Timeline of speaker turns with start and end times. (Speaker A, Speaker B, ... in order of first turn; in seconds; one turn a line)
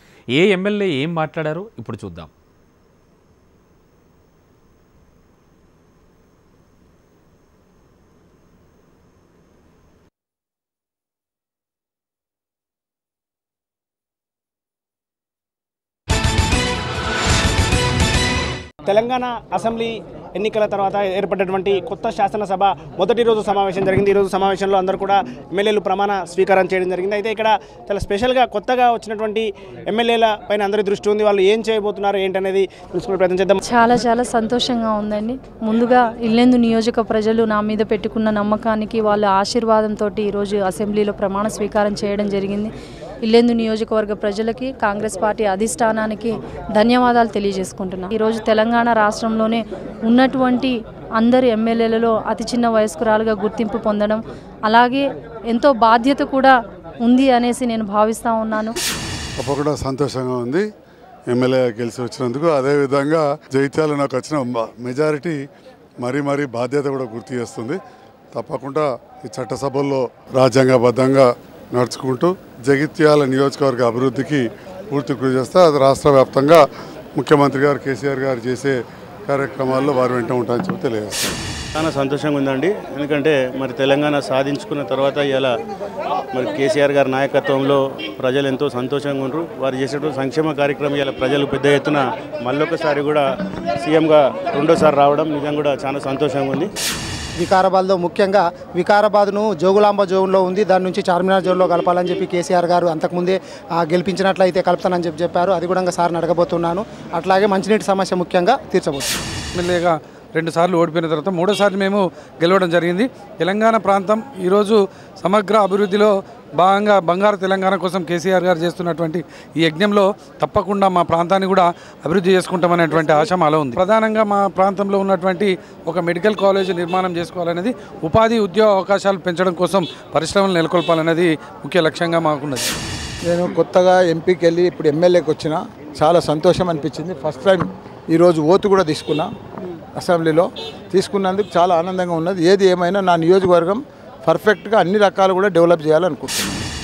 Speaker A: 0.3-2.3
Speaker B: 18.9-33.6
Speaker C: 33.6-42.7
Speaker C: 43.2-58.8
Speaker D: 59.4-60.6
Speaker D: 61.3-65.4
Speaker D: 66.0-67.8
Speaker D: 68.3-76.6
Speaker D: 77.2-78.8
Speaker D: 79.3-81.3
Speaker E: 81.7-85.5
Speaker E: 86.3-93.2
Speaker E: 93.8-96.7
Speaker F: 97.4-109.1
Speaker G: 109.5-132.7
Speaker H: 133.3-139.3
Speaker H: 140.0-146.7